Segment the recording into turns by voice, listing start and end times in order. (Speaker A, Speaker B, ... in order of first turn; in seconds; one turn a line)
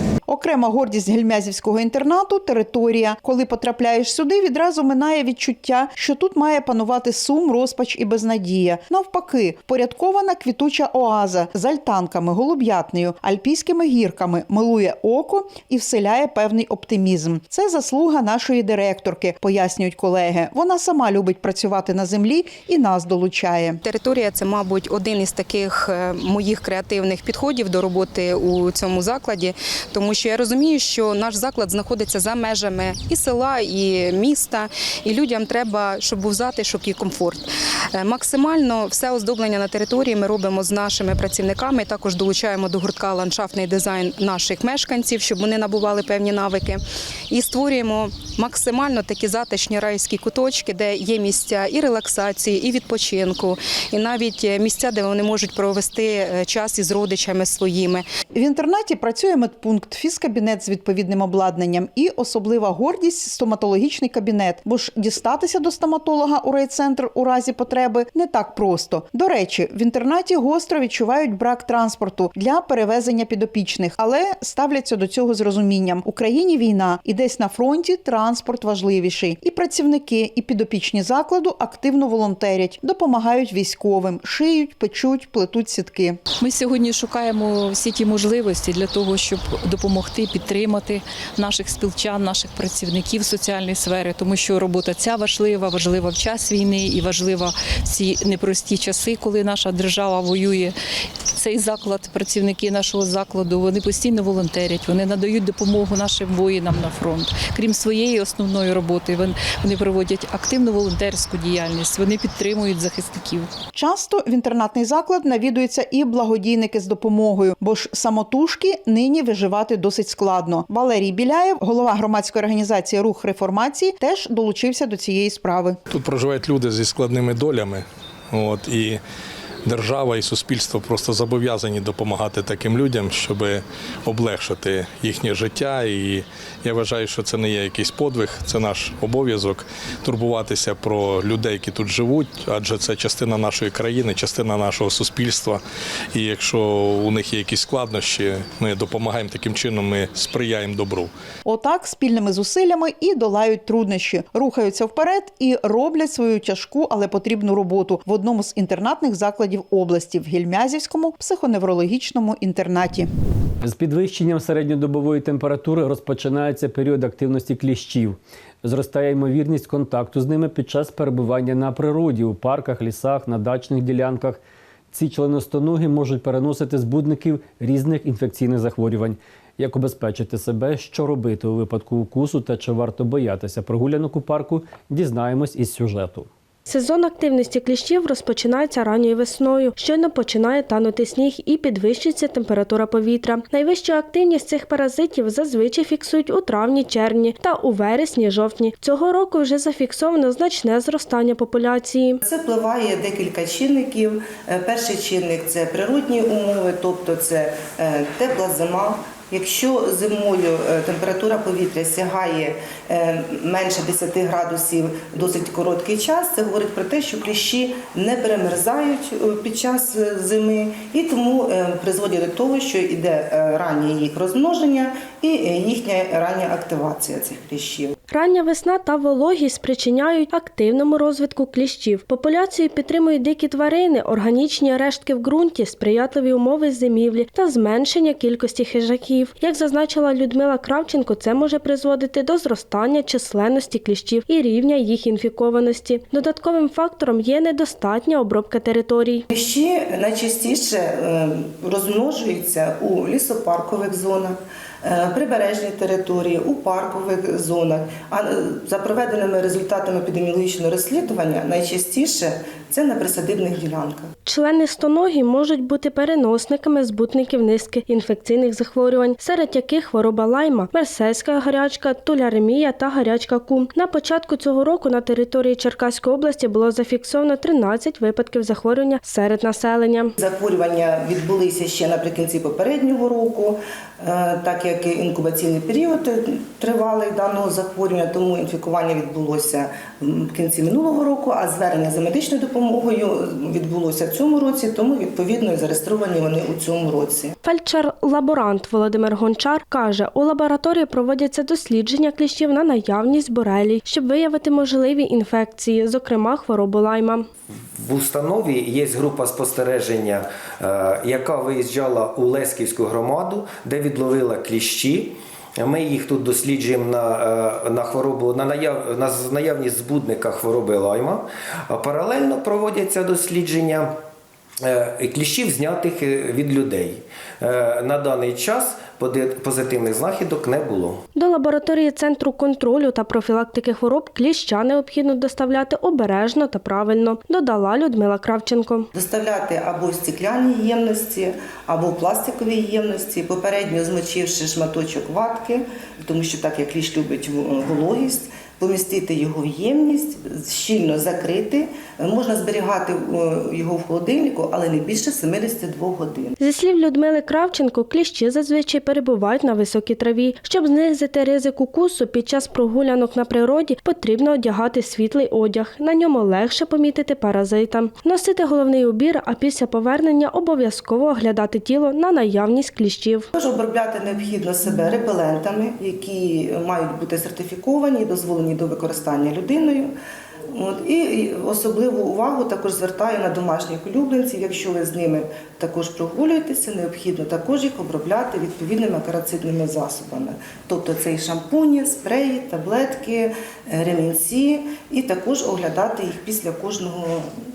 Speaker A: 0.3-23.8
Speaker B: 23.8-58.0
Speaker A: 58.3-86.2
Speaker C: 86.4-100.8
Speaker C: 101.3-113.5
Speaker A: 113.7-125.8
Speaker D: 125.9-129.0
Speaker D: 129.7-145.6
Speaker D: 146.1-151.1
Speaker A: 151.4-163.1
Speaker E: 163.6-174.4
Speaker E: 174.9-186.3
Speaker F: 186.7-202.2
Speaker G: 202.2-227.9
Speaker F: 228.1-249.3
Speaker G: 249.3-264.1
Speaker F: 264.2-280.1
Speaker G: 280.2-297.4
Speaker F: 297.4-307.3
Speaker H: 307.8-323.9
Speaker H: 324.6-331.0
Speaker F: 331.2-338.9
Speaker G: 338.9-356.4
Speaker F: 356.4-373.3
Speaker G: 373.3-379.9
Speaker G: 380.5-397.3